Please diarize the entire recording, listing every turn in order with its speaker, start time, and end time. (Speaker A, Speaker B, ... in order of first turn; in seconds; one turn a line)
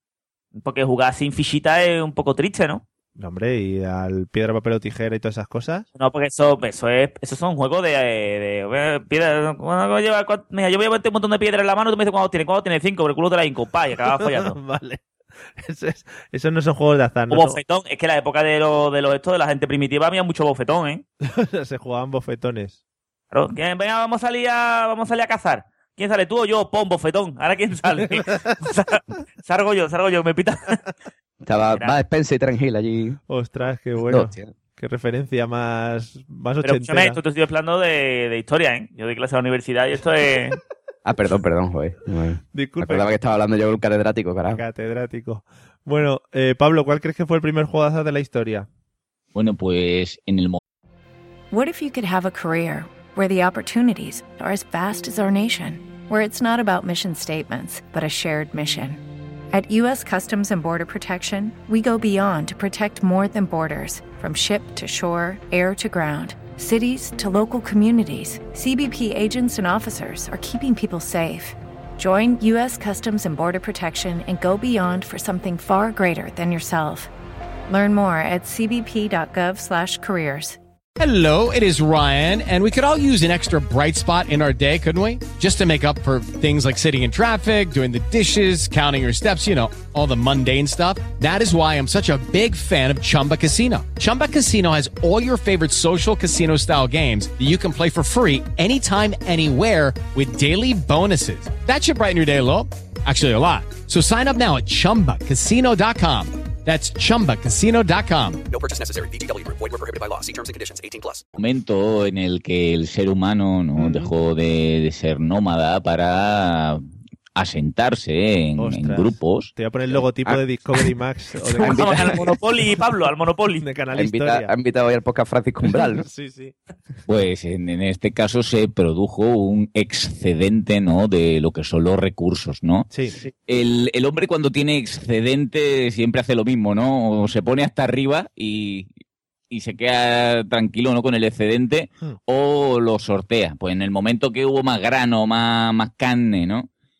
Speaker A: 0.6-2.8
Speaker B: 3.1-5.9
Speaker A: 6.0-14.6
Speaker B: 14.2-15.0
Speaker B: 15.6-17.6
Speaker A: 17.3-21.0
Speaker B: 21.2-22.8
Speaker A: 23.3-30.8
Speaker B: 28.2-28.5
Speaker C: 31.4-33.2
Speaker B: 33.3-37.2
Speaker C: 34.0-34.5
Speaker A: 36.6-40.6
Speaker C: 41.0-44.6
Speaker B: 42.5-43.1
Speaker B: 44.5-48.7
Speaker D: 49.3-50.6
Speaker E: 51.5-77.1
Speaker E: 77.7-80.6
Speaker F: 81.0-108.4
Speaker G: 108.5-111.2
Speaker D: 111.3-116.8
Speaker B: 113.8-114.1
Speaker D: 117.3-119.5
Speaker B: 118.6-122.3
Speaker A: 121.5-123.6
Speaker C: 121.6-122.2
Speaker B: 123.6-124.5
Speaker C: 123.9-126.0
Speaker B: 125.7-126.5
Speaker D: 127.1-132.9
Speaker B: 132.9-133.2
Speaker D: 133.5-138.9
Speaker D: 139.5-146.7